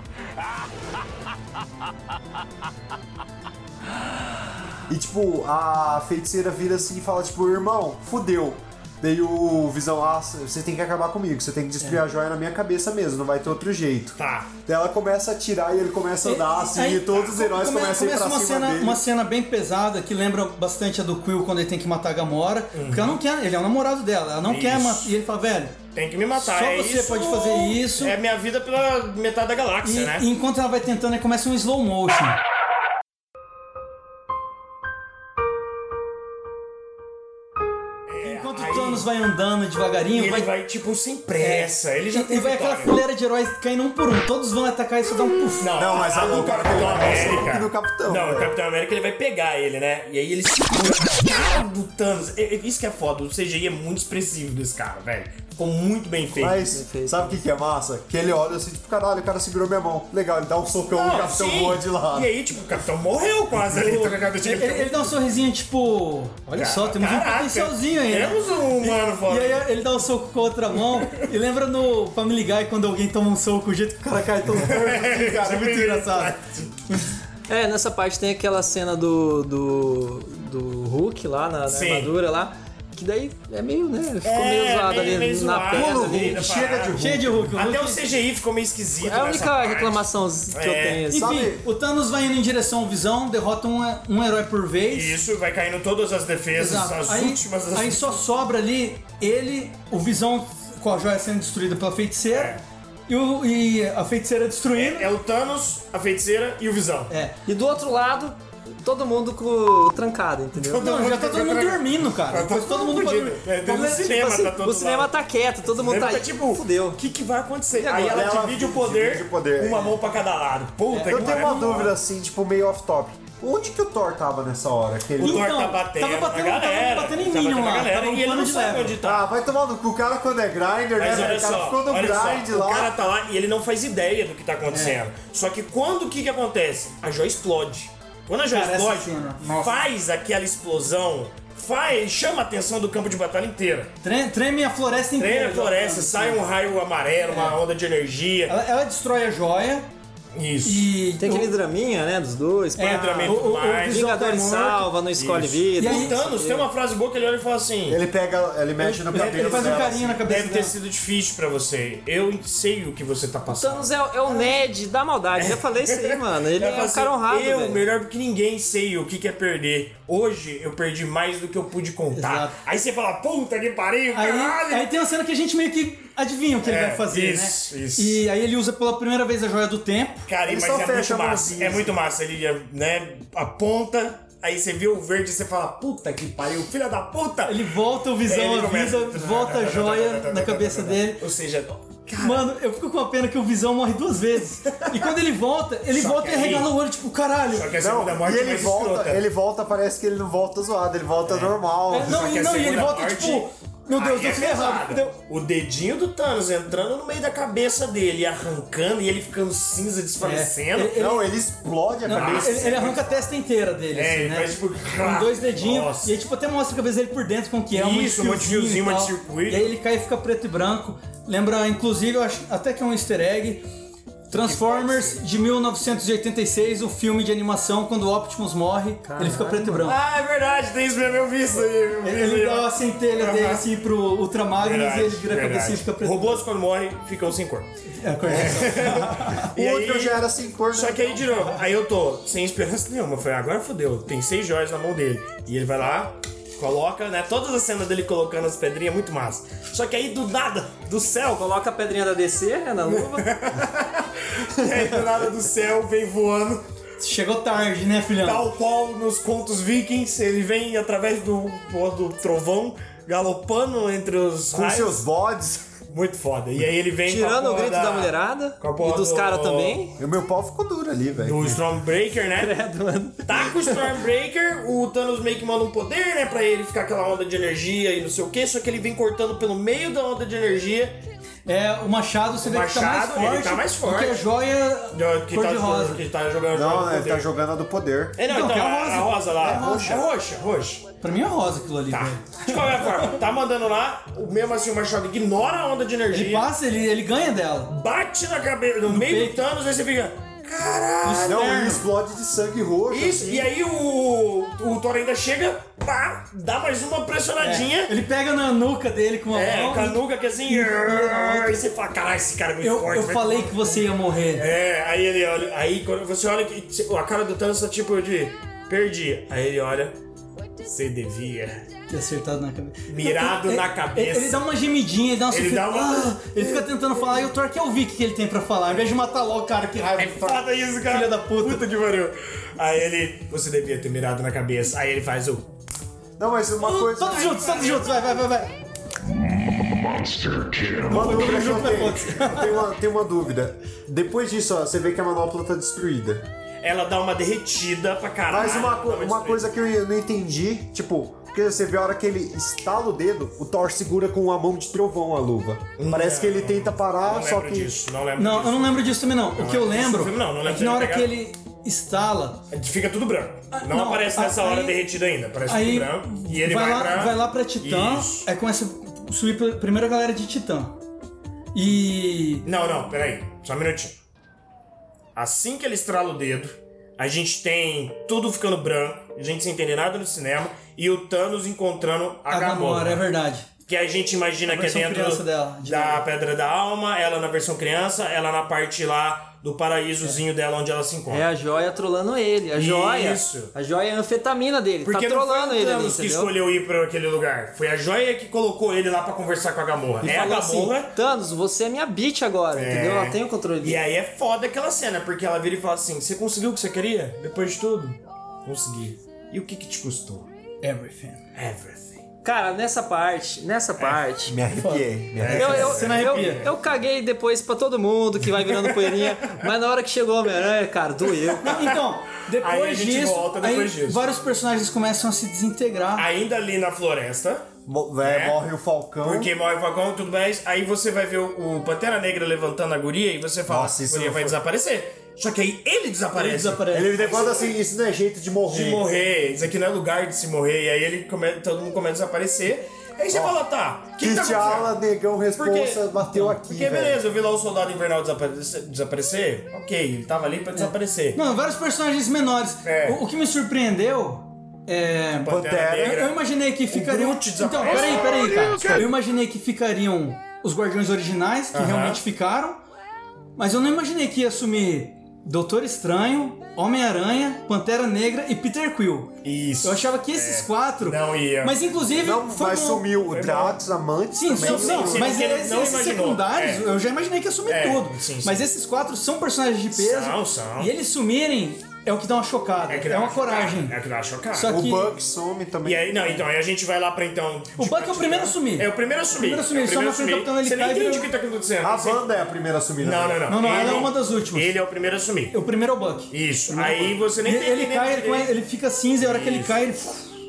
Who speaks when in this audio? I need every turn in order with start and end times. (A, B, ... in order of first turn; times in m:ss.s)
0:04.9-0:19.0 A
0:14.2-0:14.5 B
0:16.2-0:25.8 C
0:22.7-0:23.2 B
0:24.4-0:25.1 B
0:25.9-0:30.3 B
0:26.4-0:28.1 C
0:29.8-0:32.4 C
0:38.1-0:39.1 B
0:38.2-0:40.5 C
0:40.1-0:43.0 B
0:41.4-0:45.7 C
0:45.6-0:56.6 B
0:45.8-0:48.5 A
0:56.3-1:02.3 A
0:56.6-0:57.4 D
1:00.9-1:05.2 B
1:03.7-1:16.4 C
1:06.6-1:09.6 B
1:14.5-1:16.8 B
1:17.5-1:26.4 D
1:21.7-1:22.1 B
1:24.2-1:31.0 B
1:25.7-1:27.5 A
1:27.0-1:28.0 C
1:29.0-1:31.4 D
1:31.1-1:31.6 A
1:31.1-1:35.2 C
1:34.9-1:38.2 B
1:36.6-1:45.1 C
1:42.3-1:42.6 B
1:44.7-1:47.1 B
1:47.1-1:47.4 C
1:47.5-1:50.9 D
1:50.6-1:55.1 B
1:50.8-1:54.1 C
1:53.9-1:57.0 D
1:55.7-2:02.0 B
1:57.8-1:58.1 D
1:57.9-2:00.0 A
2:00.9-2:01.8 C
2:01.1-2:05.6 A
2:05.2-2:09.2 B
2:05.2-2:09.0 C
2:09.0-2:13.0 A
2:11.0-2:23.9 B
2:14.7-2:15.0 C
2:18.5-2:19.8 C
2:24.0-2:26.4 C
2:25.2-2:28.5 B
2:27.3-2:27.6 C
2:28.5-2:29.9 C
2:30.3-2:30.9 B
2:30.6-2:31.5 C
2:31.2-2:36.7 D
2:32.8-2:34.9 C
2:32.8-2:34.1 B
2:35.2-2:38.0 B
2:35.8-2:36.1 C
2:37.9-2:40.2 A
2:38.8-2:40.7 C
2:38.8-2:43.9 B
2:43.5-2:47.8 D
2:45.4-2:54.9 B
2:52.2-2:52.6 C
2:54.1-3:00.3 C
2:56.6-2:58.2 B
3:00.3-3:07.6 B
3:00.4-3:02.0 A
3:07.5-3:11.2 C
3:08.2-3:12.5 B
3:12.2-3:17.7 C
3:15.9-3:16.7 B
3:17.5-3:19.2 B
3:17.8-3:22.4 A
3:21.3-3:31.0 B
3:21.9-3:25.2 C
3:30.2-3:31.3 C
3:30.9-3:33.1 A
3:32.0-3:43.6 C
3:32.1-3:33.2 B
3:33.9-3:36.1 B
3:37.7-3:39.7 B
3:44.3-3:50.0 C
3:44.3-3:45.2 B
3:49.1-3:49.8 D
3:49.8-3:53.6 B
3:52.0-3:56.4 C
3:54.6-3:57.7 B
3:58.0-3:59.5 C
3:58.2-4:11.4 B
3:58.3-4:01.3 A
4:11.4-4:13.3 D
4:12.9-4:16.6 B
4:17.0-4:18.5 C
4:18.2-4:25.0 B
4:24.5-4:25.7 A
4:25.9-4:29.8 B
4:27.1-4:29.9 D
4:30.0-4:31.6 A
4:31.2-4:32.6 B
4:32.3-4:33.9 D
4:33.2-4:41.0 B
4:41.5-4:46.0 C
4:42.4-4:44.3 B
4:44.9-4:47.3 B
4:46.5-4:48.2 A
4:48.2-4:50.8 B
4:48.3-4:50.0 C
4:49.4-4:50.0 A
4:51.0-4:53.1 C
4:51.9-4:56.5 B
4:56.1-4:57.7 C
4:57.7-5:01.5 B
4:58.9-4:59.4 C
5:01.0-5:01.9 C
5:01.1-5:03.5 A
5:02.9-5:08.0 B
5:07.4-5:11.6 C
5:09.3-5:20.0 B
5:12.6-5:14.5 C
5:20.6-5:21.7 B
5:21.9-5:31.7 C
5:22.9-5:24.5 B
5:25.3-5:27.2 B
5:30.0-5:35.5 B
5:36.2-5:37.6 A
5:36.6-5:38.5 C
5:37.3-5:37.9 B
5:39.0-5:41.8 E
5:40.8-5:46.3 A
5:40.9-5:42.6 C
5:46.6-5:49.5 B
5:48.3-5:57.8 A
5:55.8-6:01.2 B
5:58.2-6:02.4 C
6:02.5-6:08.3 B
6:03.5-6:04.8 C
6:05.5-6:10.8 C
6:11.6-6:12.5 C
6:12.4-6:14.0 B
6:15.2-6:23.0 B
6:22.3-6:23.5 C
6:23.7-6:31.2 B
6:24.5-6:26.0 C
6:31.1-6:36.3 D
6:32.6-6:33.5 B
6:34.8-6:40.9 B
6:40.0-6:43.8 D
6:42.6-6:50.3 B
6:50.6-6:51.2 C
6:51.4-6:52.0 B
6:52.2-6:54.4 D
6:53.8-6:54.0 B
6:54.3-6:55.8 A
6:54.5-6:56.5 C
6:55.2-6:56.6 B
6:55.3-7:01.6 D
6:58.4-6:59.1 B
7:01.4-7:01.8 B
7:01.4-7:06.1 C
7:02.4-7:04.1 B
7:06.0-7:07.5 B
7:07.7-7:09.3 A
7:08.0-7:08.4 B
7:09.0-7:17.5 B
7:13.5-7:14.4 A
7:16.1-7:17.2 C
7:16.7-7:18.9 A
7:18.5-7:24.7 B
7:23.1-7:23.4 A
7:24.0-7:27.0 A
7:25.4-7:31.2 B
7:30.6-7:42.6 C
7:32.6-7:33.0 B
7:35.2-7:36.2 B
7:35.3-7:36.0 A
7:36.7-7:38.9 B
7:41.5-7:42.0 B
7:43.4-7:52.9 C
7:49.2-7:51.9 B
7:52.0-7:55.2 A
7:53.1-7:53.6 B
7:54.1-8:03.8 C
7:54.3-7:56.7 B
7:57.5-7:58.5 B
7:59.7-8:00.7 B
8:02.7-8:04.6 B
8:04.3-8:04.9 C
8:04.5-8:06.2 A
8:05.6-8:12.0 B
8:07.6-8:11.1 C
8:11.6-8:13.7 A
8:12.8-8:15.4 B
8:13.3-8:14.5 C
8:15.3-8:20.1 C
8:16.1-8:18.3 B
8:19.0-8:19.6 B